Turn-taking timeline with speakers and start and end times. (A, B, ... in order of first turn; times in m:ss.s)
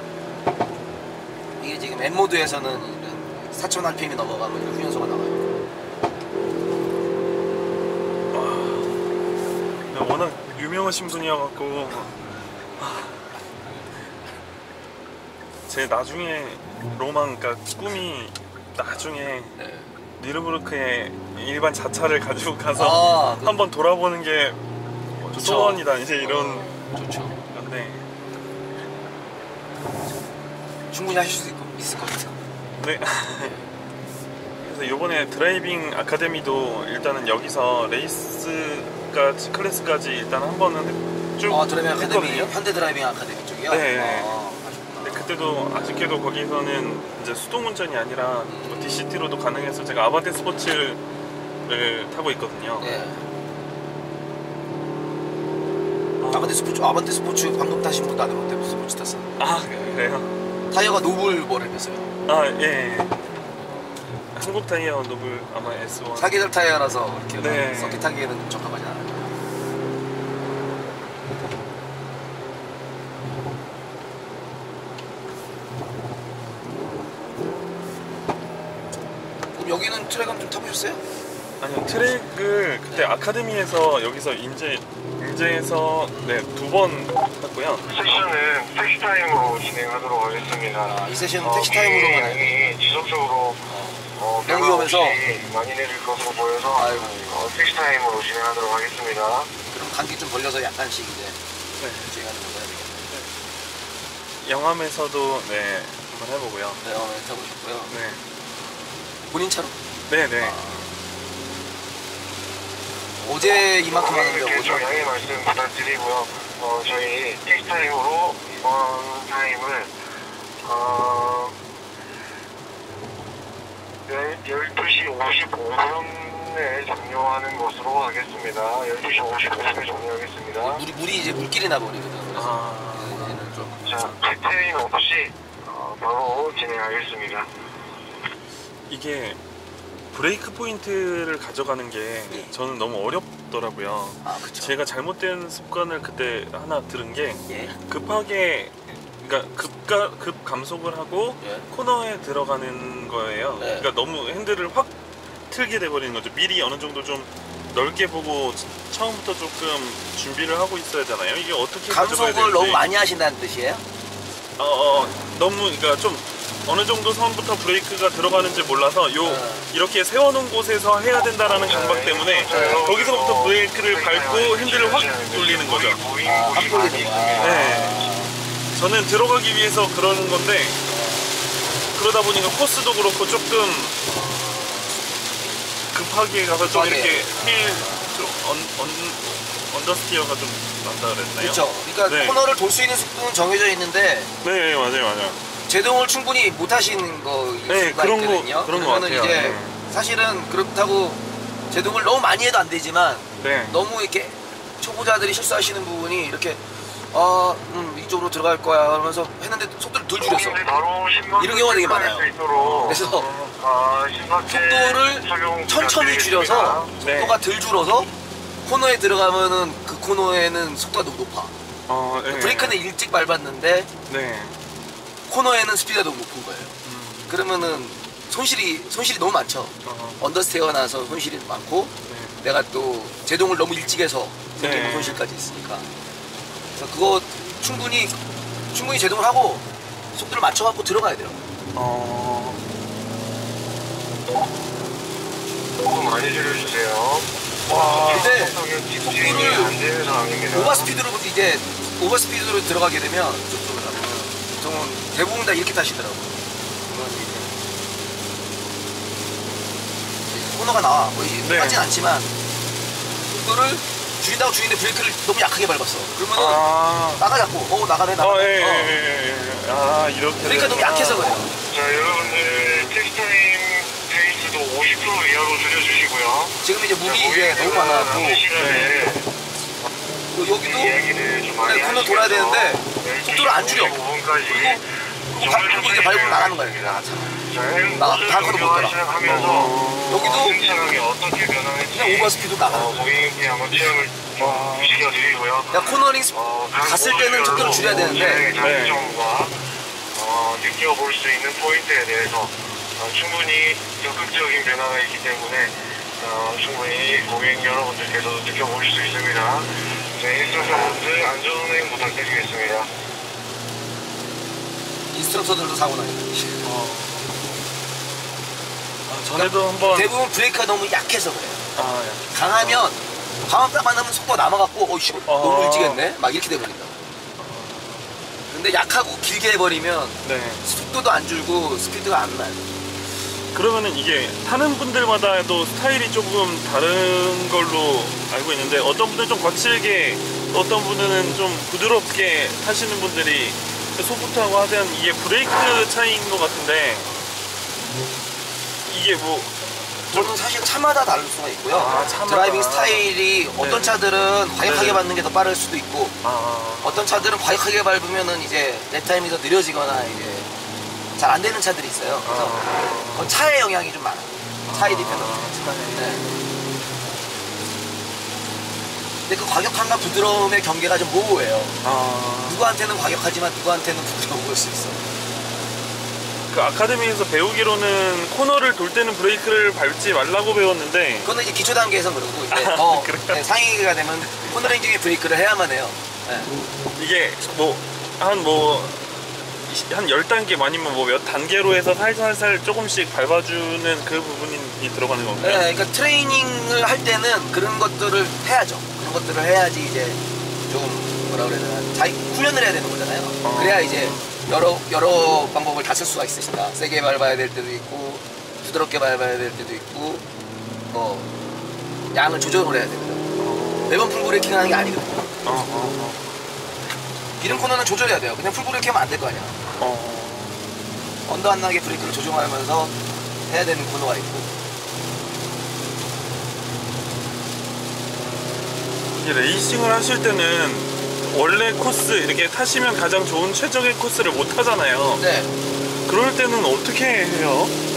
0:01.6-0:05.5 A
0:08.3-0:09.2 B
0:09.8-0:12.2 B
0:12.8-0:13.3 B
0:15.7-0:19.6 B
0:19.5-0:19.9 A
0:20.2-0:24.6 B
0:22.7-0:23.6 A
0:25.2-0:26.7 B
0:25.3-0:27.4 A
0:27.5-0:28.1 B
0:30.9-0:32.4 A
0:32.8-0:33.5 B
0:33.3-0:33.7 A
0:34.6-0:42.6 B
0:41.5-0:45.4 A
0:43.7-0:44.4 B
0:45.0-0:51.0 B
0:48.4-0:49.0 A
0:51.6-0:52.9 B
0:52.8-0:53.2 A
0:56.2-0:56.6 B
0:56.3-0:59.4 A
0:59.4-1:00.3 B
1:00.7-1:02.1 A
1:02.2-1:03.2 B
1:04.3-1:06.4 B
1:06.2-1:09.3 A
1:07.4-1:08.1 B
1:19.5-1:21.0 A
1:21.6-1:27.8 B
1:22.9-1:23.1 A
1:27.8-1:28.1 A
1:27.9-1:39.5 C
1:30.8-1:32.7 A
1:33.7-1:35.2 A
1:36.7-1:37.5 A
1:39.7-1:41.4 A
1:41.8-1:42.1 B
1:42.0-1:43.1 A
1:44.4-1:46.8 B
1:46.8-1:47.9 A
1:47.9-1:48.2 B
1:49.3-1:49.8 A
1:50.1-1:50.6 B
1:50.4-1:51.0 A
1:53.2-1:55.1 A
1:53.5-1:59.9 C
2:00.6-2:01.5 C
2:04.0-2:10.8 C
2:10.6-2:14.1 A
2:12.3-2:13.4 B
2:13.8-2:17.5 C
2:18.9-2:19.4 B
2:20.1-2:34.9 B
2:24.2-2:24.8 A
2:27.5-2:27.8 A
2:31.4-2:31.7 A
2:33.6-2:33.9 A
2:35.5-2:42.8 B
2:41.9-2:43.8 A
2:44.6-2:56.0 B
2:49.2-2:49.7 A
2:51.5-2:58.1 C
2:52.5-2:52.8 A
2:56.2-2:58.4 A
2:57.4-2:58.1 B
2:58.7-3:00.8 B
3:00.9-3:01.4 A
3:01.9-3:04.0 B
3:04.0-3:05.6 A
3:05.9-3:12.4 B
3:06.6-3:08.2 A
3:11.4-3:14.3 A
3:14.4-3:15.4 B
3:15.7-3:30.6 A
3:17.7-3:19.8 B
3:23.4-3:23.8 B
3:30.2-3:36.9 C
3:31.4-3:32.3 A
3:32.5-3:33.6 B
3:32.8-3:33.3 A
3:34.4-3:38.1 A
3:37.0-3:37.4 B
3:38.6-3:41.5 A
3:41.9-3:42.8 B
3:42.3-3:43.9 A
3:44.1-3:44.6 B
3:45.3-3:46.8 A
3:46.8-3:47.3 B
3:47.3-3:55.9 A
3:49.8-3:50.2 B
3:52.1-3:52.4 B
3:54.6-3:55.2 B
3:56.7-3:58.2 A
3:58.7-4:01.4 A
4:01.7-4:02.6 B
4:05.8-4:10.9 C
4:07.7-4:08.4 B
4:08.0-4:09.8 A
4:10.5-4:17.6 A
4:20.3-4:22.3 A
4:21.4-4:21.9 B
4:23.2-4:29.0 A
4:26.3-4:27.2 B
4:28.2-4:31.4 B
4:30.4-4:31.5 A
4:31.6-4:39.3 C
4:32.4-4:33.0 B
4:36.6-4:38.4 A
4:38.6-4:39.0 B
4:40.3-4:41.0 A
4:40.6-4:59.6 C
4:41.6-4:47.4 A
4:47.9-4:49.0 A
4:49.2-4:50.4 B
4:50.1-4:50.6 A
4:51.9-4:53.2 A
4:54.4-4:55.0 B
4:55.7-4:58.5 A
4:58.6-4:59.1 B
5:00.1-5:12.9 C
5:15.1-5:16.7 A
5:16.6-5:17.4 B
5:19.1-5:20.2 B
5:19.3-5:21.7 A
5:21.8-5:22.9 B
5:22.3-5:27.0 A
5:25.2-5:26.0 B
5:27.4-5:28.1 B
5:28.5-5:32.7 A
5:30.2-5:30.6 B
5:33.4-5:47.1 B
5:48.8-5:50.4 B
5:50.1-5:56.2 A
5:51.7-5:54.0 B
5:54.6-5:55.0 B
5:56.2-5:57.3 B
5:56.8-6:00.5 A
6:01.2-6:06.2 A
6:02.2-6:03.3 B
6:04.6-6:06.6 B
6:09.3-6:11.8 A
6:11.8-6:12.7 B
6:12.4-6:15.0 A
6:16.5-6:21.3 B
6:21.2-6:26.5 A
6:22.5-6:23.4 B
6:26.9-6:35.6 B
6:35.4-6:50.2 A
6:43.4-6:44.3 B
6:50.9-6:51.3 A
6:52.1-6:53.3 A
6:53.4-6:54.0 B
6:53.8-6:55.3 A
6:55.4-6:56.4 B
6:57.4-6:59.6 A
6:59.8-7:00.6 B
7:01.2-7:02.9 A
7:03.5-7:04.5 A
7:09.1-7:15.2 B
7:15.2-7:15.5 A
7:16.0-7:17.8 B